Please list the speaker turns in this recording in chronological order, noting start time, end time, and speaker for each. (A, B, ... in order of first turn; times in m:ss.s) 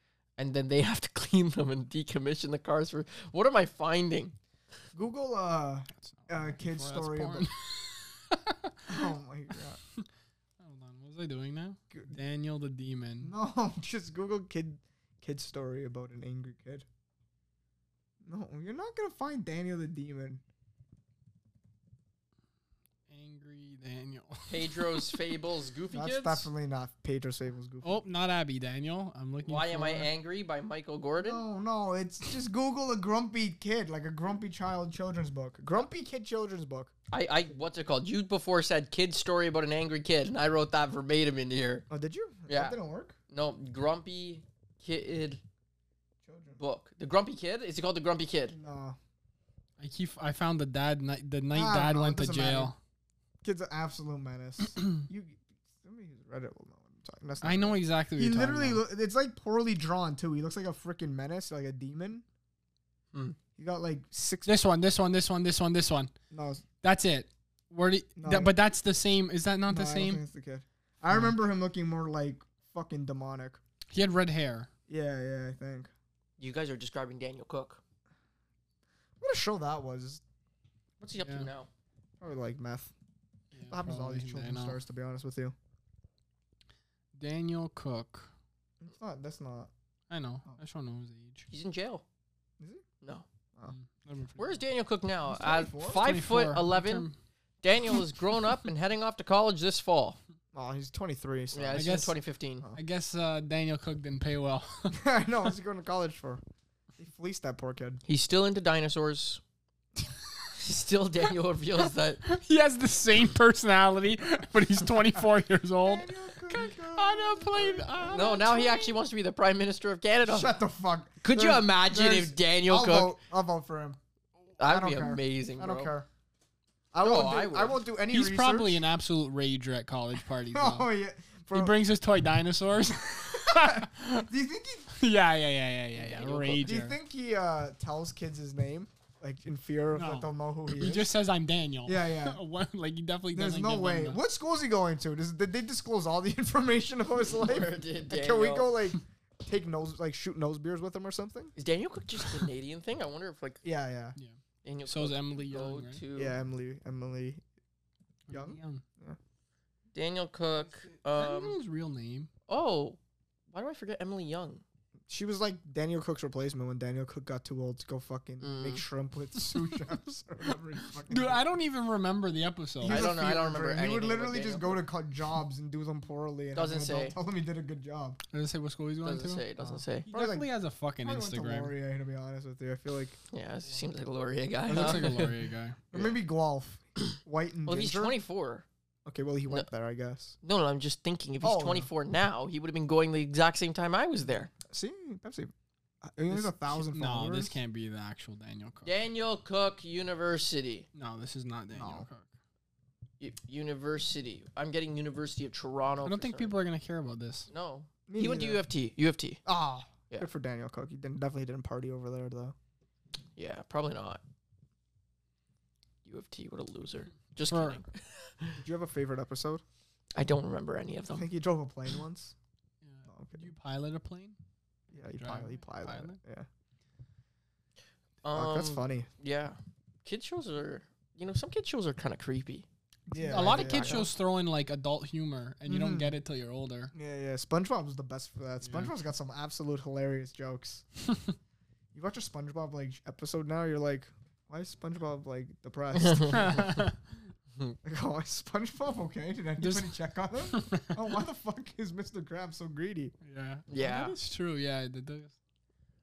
0:00.4-0:04.4 A
0:05.0-0:07.5 B
0:06.0-0:09.0 C
0:08.9-0:09.8 B
0:10.6-0:13.3 C
0:13.2-0:16.8 B
0:18.2-0:20.4 B
0:23.1-0:25.2 C
0:24.5-0:26.5 A
0:25.9-0:28.0 B
0:27.8-0:30.1 C
0:29.4-0:31.4 A
0:31.2-0:36.9 B
0:37.1-0:41.8 A
0:41.9-0:43.2 B
0:42.5-0:42.8 A
0:43.3-0:45.4 A
0:46.2-0:46.6 B
0:46.6-0:48.6 A
0:48.5-0:49.0 B
0:49.8-0:52.8 C
0:51.5-0:52.7 B
0:53.4-1:02.2 B
0:57.4-0:58.8 C
1:03.6-1:04.5 B
1:04.5-1:06.1 C
1:06.3-1:06.6 B
1:06.8-1:10.2 C
1:08.2-1:08.5 B
1:09.7-1:13.6 B
1:13.9-1:14.7 C
1:14.9-1:15.9 B
1:16.4-1:17.8 A
1:19.2-1:20.2 B
1:21.0-1:21.7 A
1:21.2-1:21.5 C
1:22.2-1:22.9 B
1:23.5-1:24.8 C
1:23.7-1:25.6 B
1:27.2-1:28.3 C
1:28.8-1:29.7 B
1:30.1-1:31.5 C
1:31.5-1:32.0 A
1:33.7-1:34.6 C
1:34.4-1:37.1 A
1:35.3-1:36.0 B
1:35.9-1:37.2 C
1:37.6-1:40.2 A
1:40.5-1:41.9 B
1:41.5-1:42.7 A
1:41.7-1:42.2 C
1:42.8-1:45.0 C
1:44.9-1:46.4 B
1:47.0-1:48.0 B
1:48.1-1:49.4 A
1:50.6-1:52.2 A
1:52.2-1:59.0 C
1:55.8-1:58.2 B
1:58.1-2:00.5 A
2:00.2-2:04.0 B
2:01.2-2:03.1 A
2:04.6-2:05.9 A
2:04.6-2:06.1 B
2:06.9-2:08.8 B
2:07.0-2:07.8 A
2:08.1-2:10.9 C
2:10.5-2:11.8 B
2:11.5-2:14.3 C
2:13.4-2:14.9 B
2:14.9-2:17.0 C
2:16.0-2:16.6 A
2:16.6-2:21.1 B
2:20.0-2:24.2 C
2:21.9-2:22.4 B
2:23.3-2:31.5 B
2:27.3-2:28.8 A
2:31.6-2:33.6 A
2:33.6-2:34.2 B
2:34.2-2:36.0 C
2:34.6-2:36.3 A
2:36.2-2:37.4 B
2:38.3-2:38.8 C
2:38.3-2:39.2 B
2:39.9-2:41.6 A
2:41.1-2:42.3 C
2:42.5-2:43.0 A
2:43.5-2:44.6 A
2:45.1-2:51.4 B
2:48.4-2:48.8 A
2:49.4-2:49.8 C
2:51.0-2:53.1 C
2:52.8-2:58.2 B
2:52.8-2:54.8 A
2:56.5-2:57.2 A
2:58.3-2:59.4 C
2:59.0-3:00.1 A
2:59.6-3:00.5 B
3:00.1-3:01.7 C
3:01.0-3:03.2 B
3:03.3-3:05.3 A
3:04.7-3:05.8 C
3:04.7-3:05.0 B
3:05.9-3:08.2 B
3:05.9-3:06.2 A
3:07.7-3:08.7 A
3:09.1-3:10.4 B
3:10.4-3:14.5 A
3:11.4-3:11.9 B
3:14.6-3:15.5 B
3:16.0-3:17.6 B
3:16.3-3:18.9 C
3:18.8-3:20.9 A
3:21.0-3:22.3 C
3:21.7-3:22.1 B
3:23.2-3:26.5 A
3:26.0-3:27.5 C
3:27.5-3:29.4 A
3:28.1-3:28.6 B
3:29.4-3:32.6 B
3:33.4-3:34.2 A
3:36.0-3:38.6 A
3:37.5-3:37.8 C
3:38.6-3:39.6 B
3:40.2-3:41.3 A
3:41.1-3:42.3 B
3:42.8-3:44.4 C
3:43.1-3:43.5 B
3:44.9-3:46.5 B
3:45.2-3:46.2 C
3:48.2-3:52.7 A
3:48.3-3:49.1 B
3:53.1-3:54.1 B
3:53.2-3:56.9 C
3:53.3-3:54.1 A
3:55.7-3:56.1 B
3:56.9-4:00.8 B
3:58.7-3:58.9 C
4:01.9-4:06.9 B
4:06.0-4:06.6 A
4:06.4-4:07.0 C
4:07.8-4:13.1 B
4:09.6-4:09.9 C
4:10.5-4:11.0 C
4:13.2-4:15.3 C
4:13.7-4:14.2 A